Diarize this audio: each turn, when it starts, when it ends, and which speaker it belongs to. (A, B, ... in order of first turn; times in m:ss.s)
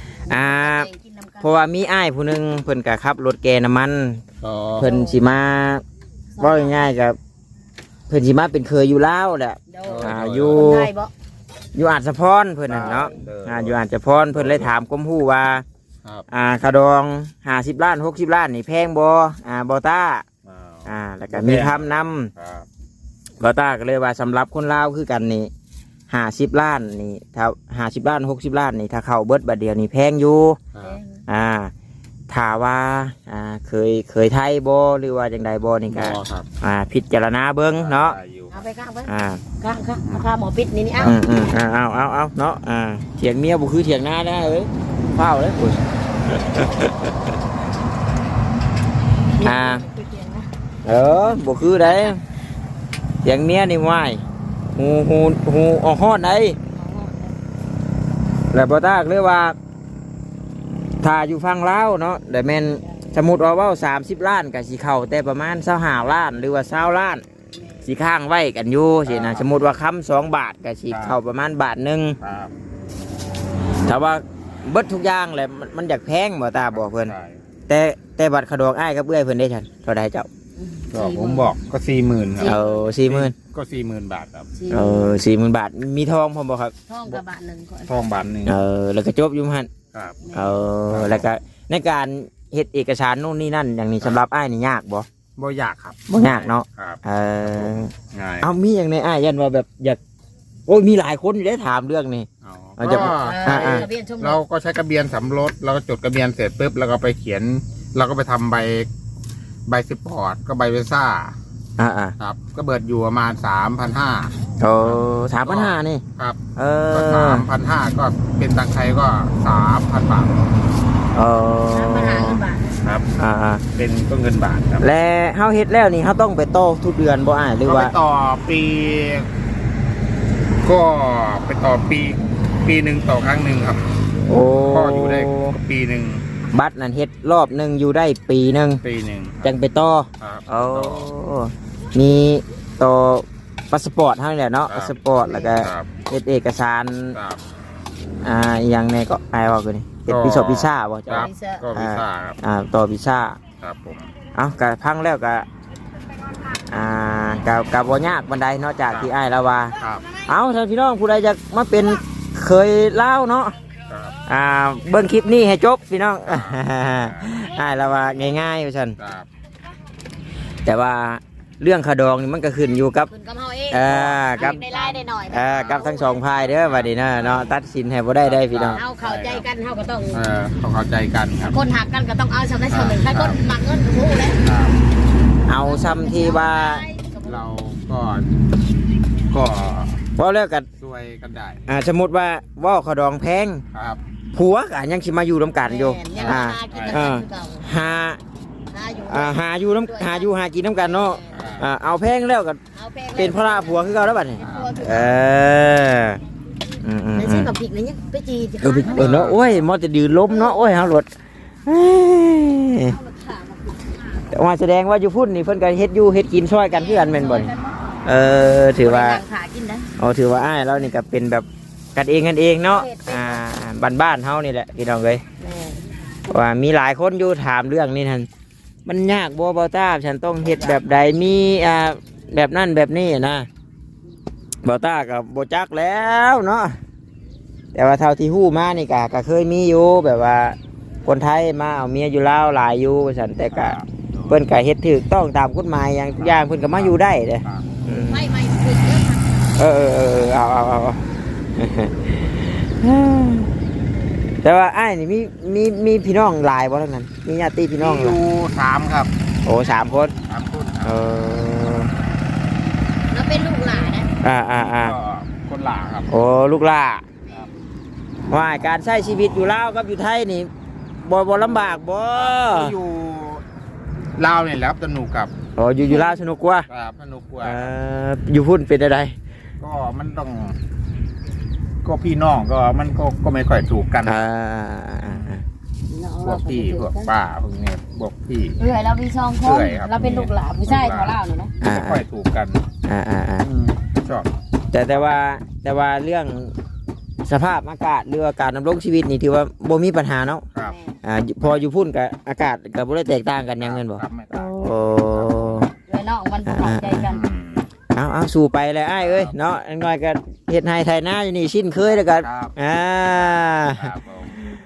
0:00.2-0:01.6 A
0:00.3-0:00.9 B
0:01.4-0:04.2 B
0:04.4-0:04.9 C
0:04.8-0:05.8 B
0:04.8-0:05.2 A
0:06.3-0:06.9 A
0:06.4-0:07.2 B
0:08.1-0:10.9 B
0:09.7-0:11.1 A
0:09.8-0:10.8 C
0:11.8-0:15.6 B
0:12.7-0:13.8 C
0:12.8-0:13.2 A
0:14.3-0:14.7 C
0:16.3-0:20.2 B
0:20.4-0:22.7 C
0:20.8-0:22.3 B
0:23.4-0:25.5 B
0:26.1-0:30.6 B
0:30.7-0:31.0 C
0:30.8-0:31.2 A
0:31.3-0:31.7 B
0:32.3-0:38.2 B
0:35.9-0:36.5 C
0:37.7-0:38.7 C
0:38.5-0:41.1 A
0:39.0-0:39.4 B
0:41.0-0:47.1 B
0:49.4-0:50.5 A
0:49.4-0:49.8 B
0:50.8-0:52.2 B
0:51.8-0:52.1 A
0:53.2-0:54.2 B
0:54.7-0:56.6 B
0:56.7-0:57.3 A
0:58.5-0:59.6 B
1:01.0-1:07.2 B
1:07.8-1:12.2 B
1:09.0-1:09.5 C
1:10.9-1:11.2 C
1:12.2-1:12.5 C
1:13.8-1:17.1 B
1:16.7-1:17.4 C
1:17.7-1:20.3 B
1:20.6-1:21.5 A
1:20.9-1:24.5 C
1:22.4-1:22.9 A
1:22.4-1:23.3 B
1:24.6-1:25.2 A
1:24.7-1:26.7 B
1:26.9-1:27.9 A
1:27.8-1:28.5 C
1:28.4-1:29.7 B
1:29.9-1:30.2 C
1:30.2-1:30.5 A
1:30.3-1:35.1 B
1:30.9-1:31.3 C
1:35.4-1:38.5 C
1:36.1-1:40.0 B
1:40.7-1:43.8 B
1:42.4-1:48.9 C
1:42.8-1:44.4 A
1:49.7-1:51.4 C
1:51.8-1:52.1 B
1:52.2-1:54.3 C
1:54.6-1:56.0 B
1:55.4-1:56.4 C
1:56.6-1:57.4 B
1:56.9-2:00.5 C
2:01.1-2:02.4 B
2:01.7-2:02.7 A
2:02.8-2:03.1 C
2:03.2-2:03.6 B
2:03.7-2:04.9 C
2:04.8-2:07.9 B
2:07.6-2:09.3 C
2:10.6-2:13.8 C
2:14.3-2:15.5 B
2:14.7-2:16.2 C
2:16.5-2:18.8 B
2:18.8-2:19.5 C
2:19.4-2:27.2 B
2:20.2-2:21.1 C
2:24.7-2:25.9 C
2:25.2-2:25.5 A
2:27.1-2:27.4 C
2:28.2-2:33.4 B
2:30.1-2:32.4 C
2:31.2-2:31.6 A
2:33.6-2:34.1 C
2:34.3-2:35.4 B
2:36.7-2:39.8 B
2:38.9-2:39.1 C
2:39.7-2:40.3 A
2:39.8-2:40.0 C
2:40.3-2:43.6 B
2:44.3-2:49.0 B
2:46.2-2:47.4 C
2:47.6-2:48.2 A
2:49.0-2:49.3 C
2:50.6-2:53.1 B
2:53.1-2:56.2 A
2:53.7-2:54.6 B
2:55.3-2:58.8 B
2:55.4-2:57.5 C
2:58.2-2:59.4 C
2:58.8-3:00.2 A
3:00.1-3:01.6 C
3:01.5-3:04.4 A
3:02.7-3:03.4 C
3:04.4-3:04.8 C
3:05.5-3:06.8 B
3:05.6-3:07.4 A
3:07.2-3:08.3 C
3:09.3-3:10.0 C
3:10.2-3:10.7 B
3:10.8-3:11.6 C
3:11.7-3:13.6 B
3:13.7-3:14.0 C
3:14.3-3:18.2 B
3:15.6-3:17.7 A
3:16.1-3:17.1 C
3:18.7-3:21.6 A
3:19.1-3:22.6 B
3:21.3-3:21.7 C
3:22.7-3:25.2 A
3:23.2-3:26.2 B
3:24.4-3:24.8 C
3:26.8-3:27.5 B
3:27.1-3:29.2 A
3:28.6-3:31.1 B
3:28.9-3:29.6 C
3:30.3-3:30.9 A
3:31.6-3:32.9 B
3:32.9-3:34.2 A
3:34.3-3:37.5 B
3:36.7-3:37.8 A
3:38.0-3:39.2 B
3:38.8-3:39.9 A
3:40.0-3:45.2 B
3:42.6-3:43.4 A
3:45.4-3:45.8 A
3:46.3-3:48.3 B
3:48.8-3:53.5 B
3:54.6-3:56.8 B
3:57.7-4:03.8 B
4:03.5-4:04.4 C
4:04.3-4:08.3 B
4:06.2-4:07.8 C
4:08.1-4:09.5 A
4:09.6-4:13.5 B
4:14.4-4:18.2 B
4:17.8-4:19.1 C
4:19.4-4:20.1 B
4:19.6-4:21.0 C
4:20.8-4:21.9 B
4:23.1-4:24.1 A
4:24.2-4:25.0 B
4:24.6-4:26.1 C
4:26.1-4:27.0 B
4:28.3-4:30.5 B
4:31.0-4:32.8 B
4:32.1-4:33.4 C
4:34.2-4:35.3 C
4:35.6-4:36.7 B
4:35.9-4:36.1 A
4:36.7-4:37.7 C
4:37.4-4:39.2 B
4:39.6-4:40.5 C
4:41.8-4:44.2 C
4:44.0-4:45.4 B
4:45.9-4:47.1 A
4:46.2-4:48.6 C
4:48.6-4:51.5 A
4:49.4-4:52.6 C
4:51.6-4:52.0 B
4:52.8-4:53.5 B
4:53.4-4:54.3 C
4:54.7-4:56.5 B
4:57.2-5:00.4 B
5:00.6-5:01.0 A
5:01.0-5:05.7 B
5:03.6-5:05.6 C
5:05.9-5:07.2 A
5:06.5-5:07.1 B
5:07.0-5:07.7 C
5:07.9-5:13.9 B
5:09.0-5:09.4 C
5:11.8-5:14.4 C